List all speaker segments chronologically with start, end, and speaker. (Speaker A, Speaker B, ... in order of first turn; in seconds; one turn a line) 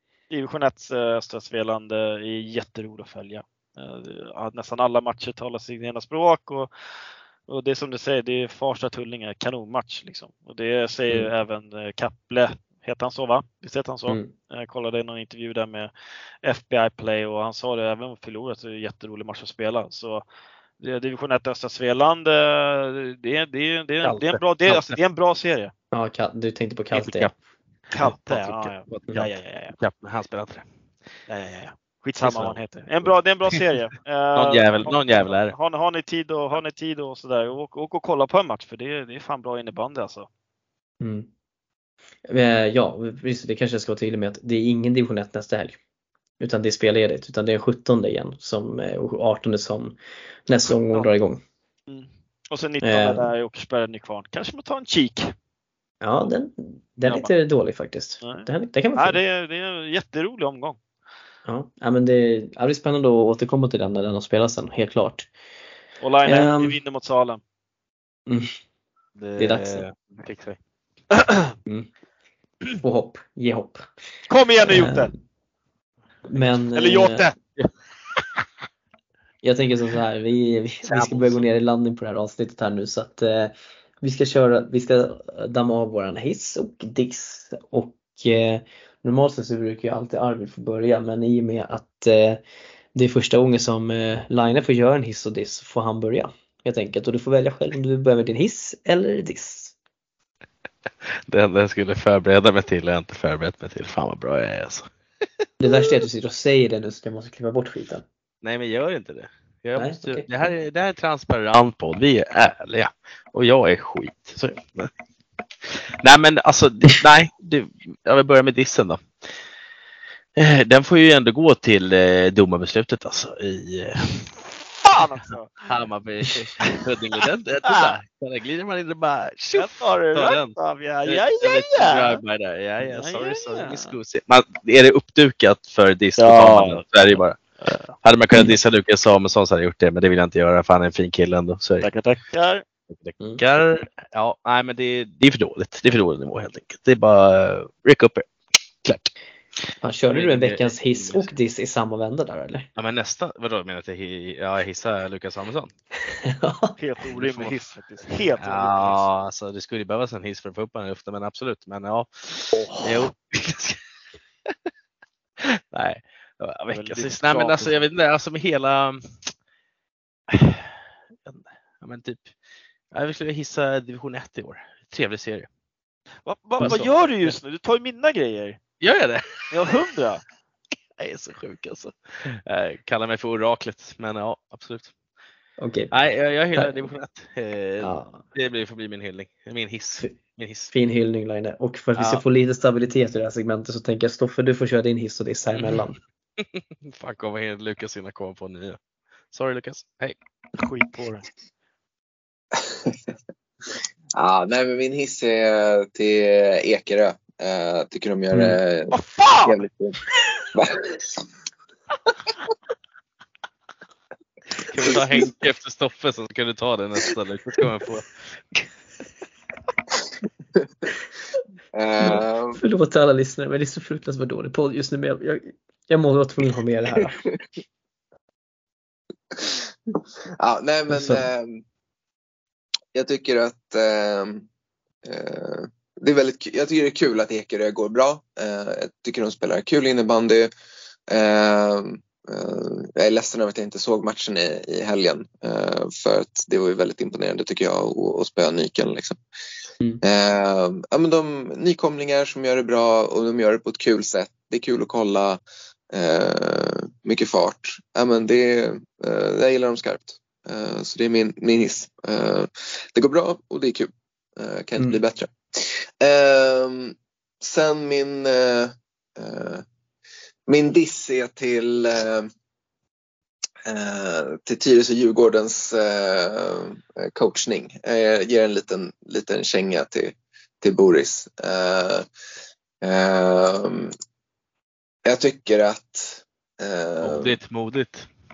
Speaker A: 0.3-6.7
Speaker A: 7.5-15.9
Speaker B: 14.1-14.3
Speaker A: 16.4-20.2
Speaker A: 20.8-25.7
Speaker C: 24.1-25.0
Speaker B: 25.9-27.3
Speaker C: 26.9-27.3
Speaker A: 27.9-29.8
Speaker C: 27.9-30.7
Speaker A: 31.3-40.3
Speaker C: 32.2-32.6
Speaker C: 34.4-35.5
Speaker B: 41.0-41.3
Speaker B: 42.3-45.8
Speaker B: 46.4-51.4
Speaker A: 51.9-55.3
Speaker B: 52.8-53.3
Speaker B: 56.0-59.2
Speaker A: 57.0-57.3
Speaker A: 58.2-60.8
Speaker B: 61.5-65.3
Speaker A: 66.0-67.4
Speaker B: 66.2-66.8
Speaker B: 68.3-68.6
Speaker C: 69.2-70.6
Speaker B: 69.4-69.8
Speaker A: 71.2-71.5
Speaker B: 72.8-73.8
Speaker A: 74.3-75.1
Speaker B: 74.6-75.1
Speaker B: 76.3-77.3
Speaker A: 76.8-77.4
Speaker B: 79.4-92.4
Speaker C: 80.9-81.4
Speaker B: 93.0-99.8
Speaker C: 101.3-104.9
Speaker B: 105.6-108.0
Speaker C: 108.4-114.9
Speaker B: 109.8-110.3
Speaker C: 115.6-119.1
Speaker C: 120.4-124.5
Speaker A: 124.9-125.7
Speaker C: 125.7-137.4
Speaker A: 126.6-126.9
Speaker A: 127.7-128.0
Speaker A: 129.5-132.2
Speaker A: 132.8-133.9
Speaker A: 136.2-137.9
Speaker C: 138.0-141.9
Speaker A: 141.8-142.6
Speaker C: 142.9-148.3
Speaker C: 148.8-149.1
Speaker B: 149.8-152.7
Speaker C: 150.1-151.3
Speaker C: 152.8-155.7
Speaker B: 156.1-156.8
Speaker A: 156.8-159.1
Speaker C: 157.2-157.6
Speaker C: 158.4-163.8
Speaker C: 165.5-169.3
Speaker A: 166.7-167.9
Speaker C: 170.3-172.3
Speaker C: 172.9-175.5
Speaker A: 176.2-178.6
Speaker C: 176.6-176.9
Speaker B: 176.6-176.9
Speaker C: 178.8-179.8
Speaker A: 179.5-180.2
Speaker C: 181.0-184.9
Speaker B: 185.6-185.9
Speaker C: 185.9-190.7
Speaker B: 186.6-186.9
Speaker B: 187.8-188.2
Speaker B: 190.7-196.0
Speaker C: 192.0-192.2
Speaker C: 195.5-195.9
Speaker C: 196.4-198.8
Speaker C: 199.3-200.2
Speaker A: 200.6-201.3
Speaker D: 202.6-203.0
Speaker D: 204.2-210.0
Speaker B: 208.3-208.6
Speaker A: 208.9-209.6
Speaker D: 210.5-211.2
Speaker C: 214.6-218.1
Speaker D: 221.7-222.6
Speaker B: 222.0-227.2
Speaker D: 229.3-229.6
Speaker D: 230.4-231.6
Speaker B: 230.9-231.3
Speaker D: 232.9-234.5
Speaker D: 235.0-240.5
Speaker D: 241.1-249.2
Speaker D: 250.0-255.4
Speaker D: 255.9-269.6
Speaker D: 270.5-272.3
Speaker D: 273.6-282.1
Speaker D: 282.8-283.9
Speaker D: 285.1-287.4
Speaker C: 287.0-288.1